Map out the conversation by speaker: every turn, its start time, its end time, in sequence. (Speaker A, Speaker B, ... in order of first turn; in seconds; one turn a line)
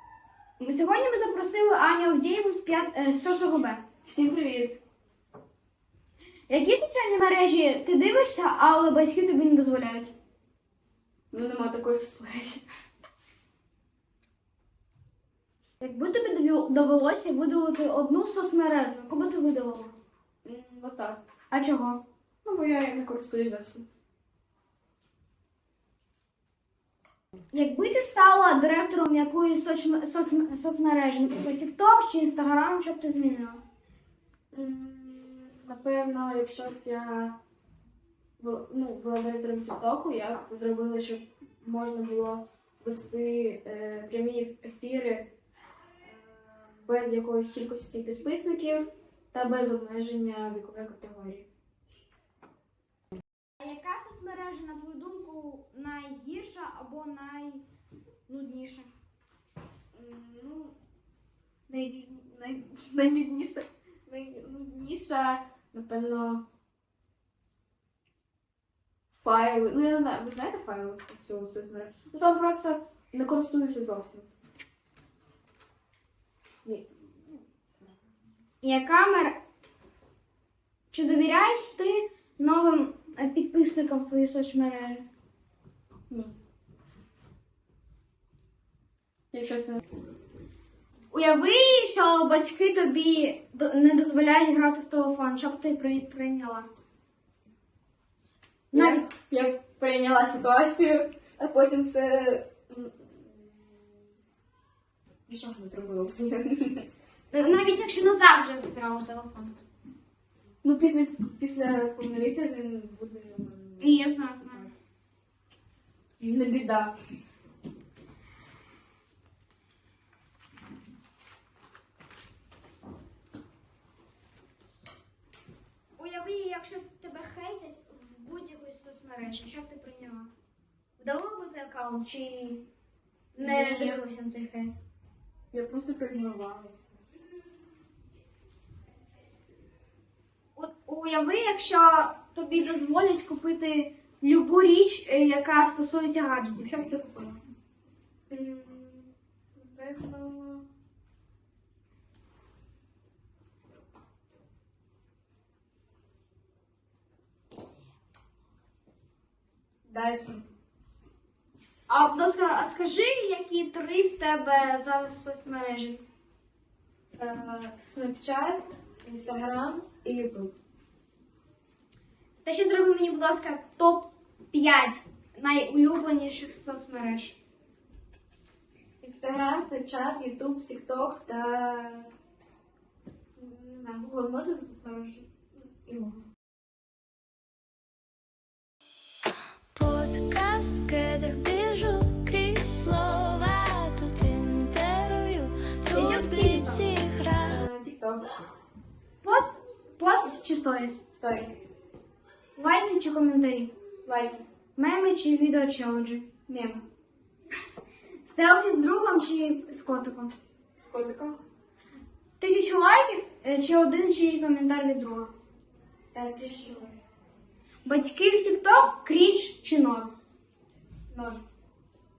Speaker A: 0.6-3.8
Speaker B: 4.0-4.8
Speaker A: 6.5-10.1
Speaker B: 11.3-12.6
Speaker A: 15.8-19.9
Speaker B: 20.4-21.2
Speaker A: 21.5-22.0
Speaker B: 22.4-23.9
Speaker A: 27.5-33.6
Speaker B: 34.5-37.4
Speaker B: 38.4-45.3
Speaker B: 46.0-51.5
Speaker A: 53.6-57.6
Speaker A: 58.3-58.9
Speaker B: 59.9-60.8
Speaker B: 61.7-66.4
Speaker B: 69.2-74.3
Speaker B: 76.6-76.9
Speaker A: 78.6-79.4
Speaker A: 80.9-85.0
Speaker B: 89.3-89.8
Speaker A: 91.1-96.7
Speaker B: 98.7-104.0
Speaker A: 98.7-99.1
Speaker B: 105.3-106.8
Speaker A: 107.3-109.5
Speaker B: 110.6-114.7
Speaker A: 113.8-114.7
Speaker B: 116.2-117.0
Speaker A: 126.0-130.3
Speaker A: 131.0-132.7
Speaker A: 133.3-134.7
Speaker B: 133.4-134.0
Speaker B: 135.5-137.0
Speaker A: 140.6-146.9
Speaker B: 146.7-147.4
Speaker B: 148.3-150.6
Speaker B: 159.8-160.5
Speaker A: 161.9-166.0
Speaker B: 167.1-170.5
Speaker A: 172.4-177.4
Speaker B: 179.0-182.1
Speaker B: 183.3-186.2
Speaker C: 189.7-197.6
Speaker A: 195.9-196.9
Speaker B: 197.5-198.3
Speaker A: 199.2-201.0
Speaker B: 201.1-201.6
Speaker A: 202.6-203.7
Speaker B: 204.0-204.4
Speaker A: 204.8-206.3
Speaker B: 206.5-206.8
Speaker A: 208.2-210.3
Speaker B: 210.8-211.4
Speaker A: 212.4-215.3
Speaker B: 216.1-216.9
Speaker A: 217.8-220.1
Speaker B: 221.1-221.4